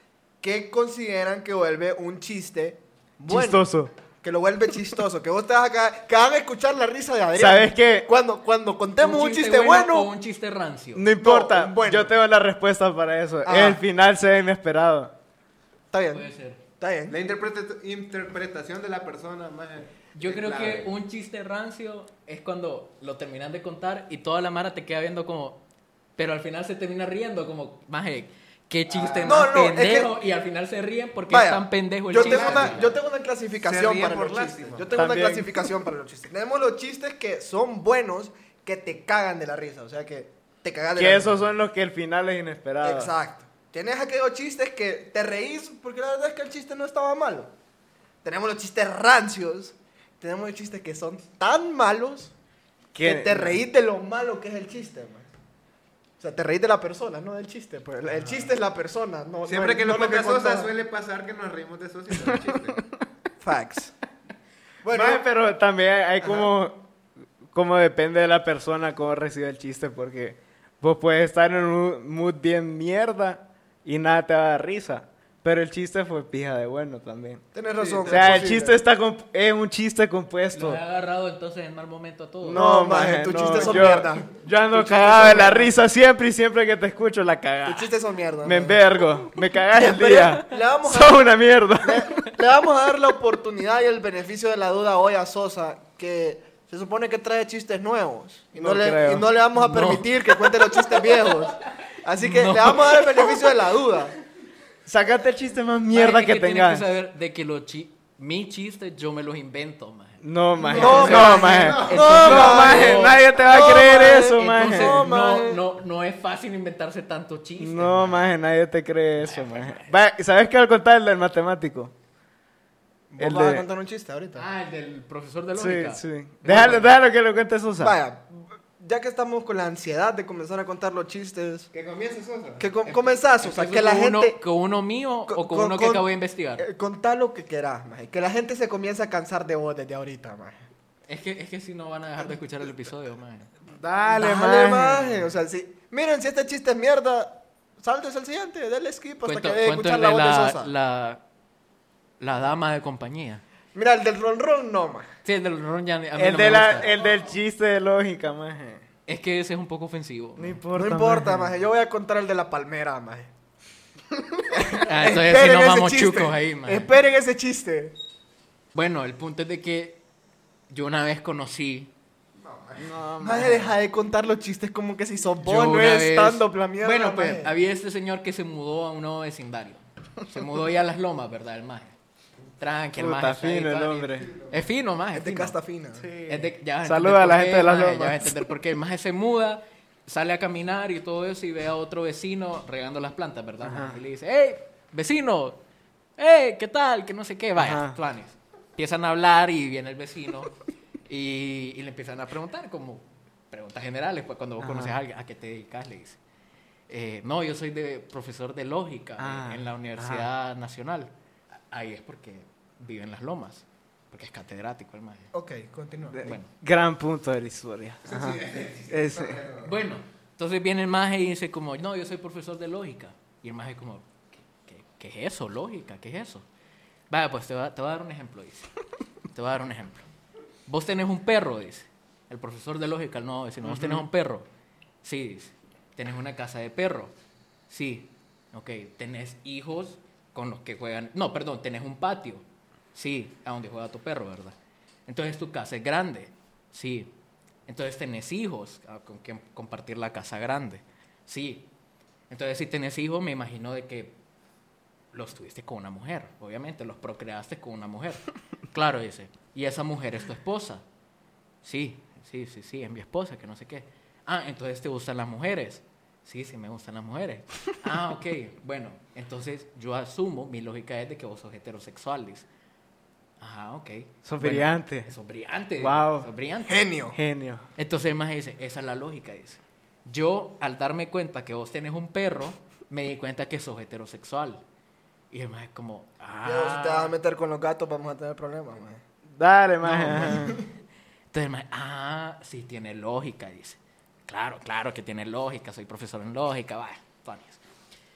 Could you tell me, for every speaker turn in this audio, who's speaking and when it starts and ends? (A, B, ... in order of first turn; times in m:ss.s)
0:00.4-0:03.7 A
0:03.3-0:03.9 B
0:04.2-0:10.1 A
0:07.3-0:08.1 B
0:09.0-0:11.1 C
0:10.9-0:15.1 B
0:11.2-0:12.1 A
0:13.4-0:13.8 A
0:15.9-0:16.2 A
0:16.1-0:16.6 C
0:16.8-0:17.2 A
0:17.1-0:20.9 D
0:20.1-0:25.6 C
0:26.2-0:32.9 C
0:28.9-0:29.4 D
0:29.2-0:30.1 A
0:31.3-0:41.5 A
0:32.1-0:32.9 D
0:33.6-0:35.0 D
0:34.9-0:35.6 B
0:40.9-0:43.1 B
0:42.8-0:47.5 A
0:48.2-0:52.3 A
0:52.9-0:53.6 B
0:53.0-0:55.3 A
0:56.2-1:00.7 A
0:58.1-0:58.4 D
0:59.4-1:02.8 D
1:03.4-1:03.9 A
1:04.8-1:05.2 A
1:04.8-1:06.9 B
1:06.2-1:06.5 A
1:07.5-1:17.4 B
1:17.5-1:18.8 A
1:17.8-1:18.5 D
1:18.0-1:20.8 B
1:20.5-1:22.6 C
1:22.4-1:32.3 B
1:22.5-1:25.7 A
1:27.6-1:28.8 A
1:29.7-1:44.1 A
1:38.5-1:39.3 B
1:39.5-1:40.0 C
1:42.2-1:43.4 C
1:44.8-1:46.8 B
1:45.9-1:53.2 C
1:50.2-1:55.0 B
1:50.7-1:55.6 A
1:52.1-1:53.0 D
1:54.3-1:58.3 C
1:57.6-2:01.9 B
1:59.2-1:59.9 C
2:03.1-2:04.4 A
2:03.2-2:03.6 B
2:04.4-2:06.9 C
2:05.5-2:08.0 B
2:07.8-2:11.7 A
2:11.7-2:13.2 D
2:12.6-2:14.4 A
2:13.4-2:16.6 C
2:15.3-2:16.1 A
2:16.6-2:20.6 A
2:21.1-2:23.5 C
2:23.8-2:24.2 D
2:24.1-2:25.2 B
2:24.1-2:30.7 A
2:29.2-2:31.2 C
2:32.2-2:33.4 C
2:33.7-2:35.1 A
2:35.2-2:36.9 C
2:36.2-2:38.8 B
2:39.1-2:40.6 C
2:40.4-2:41.6 B
2:40.7-2:43.3 A
2:44.5-2:47.9 A
2:44.7-2:46.9 C
2:48.7-2:50.0 C
2:50.7-2:51.9 C
2:52.4-2:57.5 A
2:52.8-2:53.7 B
2:55.4-3:01.9 C
3:02.6-3:05.6 C
3:03.0-3:04.3 B
3:05.1-3:06.1 A
3:06.0-3:08.4 B
3:06.3-3:15.6 C
3:13.6-3:14.0 B
3:16.2-3:20.5 C
3:17.6-3:18.0 B
3:21.1-3:26.2 C
3:24.6-3:24.9 B
3:26.9-3:31.1 C
3:29.2-3:30.3 B
3:31.7-3:35.3 C
3:35.3-3:36.3 A
3:36.1-3:39.4 B
3:36.2-3:36.5 C
3:38.0-3:39.7 D
3:39.6-3:44.1 C
3:44.6-3:46.4 C
3:47.1-3:48.7 C
3:49.3-3:50.0 C
3:50.7-3:54.5 C
3:53.6-3:54.1 B
3:55.0-3:57.1 C
3:57.7-4:04.5 C
4:05.1-4:07.1 C
4:07.7-4:11.7 C
4:12.3-4:14.2 C
4:15.1-4:20.8 C
4:21.6-4:32.4 C
4:33.4-4:36.9 C
4:34.2-4:35.1 B
4:35.8-4:36.3 B
4:36.7-4:37.2 A
4:37.1-4:37.6 B
4:37.8-4:44.6 C
4:45.3-4:47.1 C
4:46.4-4:49.0 A
4:49.3-4:50.6 B
4:49.8-4:50.5 C
4:51.3-4:57.6 C